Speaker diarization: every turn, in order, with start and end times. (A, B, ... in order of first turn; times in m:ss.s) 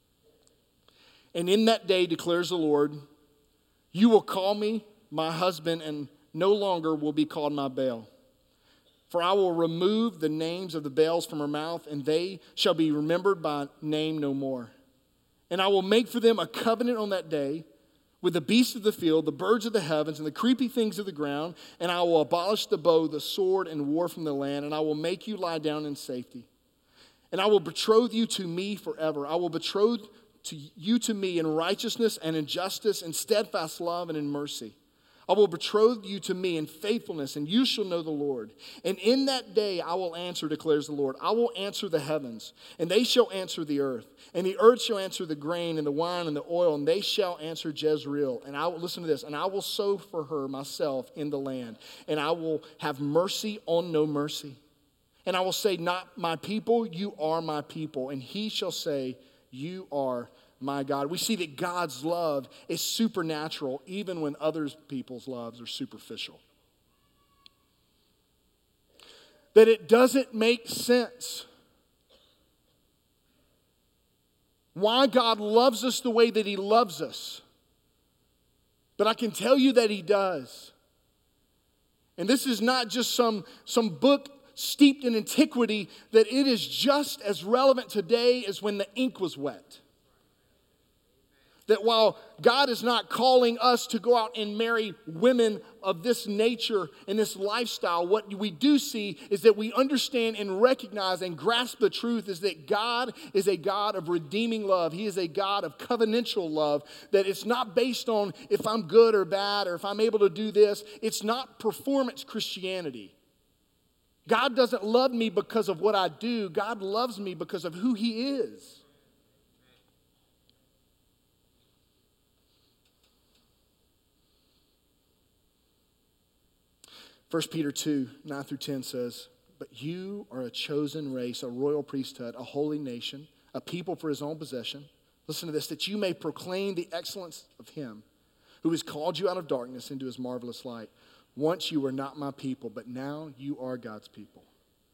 0:01.3-0:03.0 A
0:03.9-0:08.1 A
0:09.1-0:14.7 A
0:15.5-0:17.6 A
0:18.2-0:26.5 A
0:27.3-0:34.8 A
0:35.3-0:54.6 A
0:55.2-1:06.4 A
1:09.5-1:11.5 A
1:14.7-1:17.4 A
1:19.0-1:20.7 A
1:22.2-1:29.8 A
1:31.7-1:53.1 A
1:54.3-1:58.8 A
2:07.3-2:18.0 A
2:18.6-2:24.5 A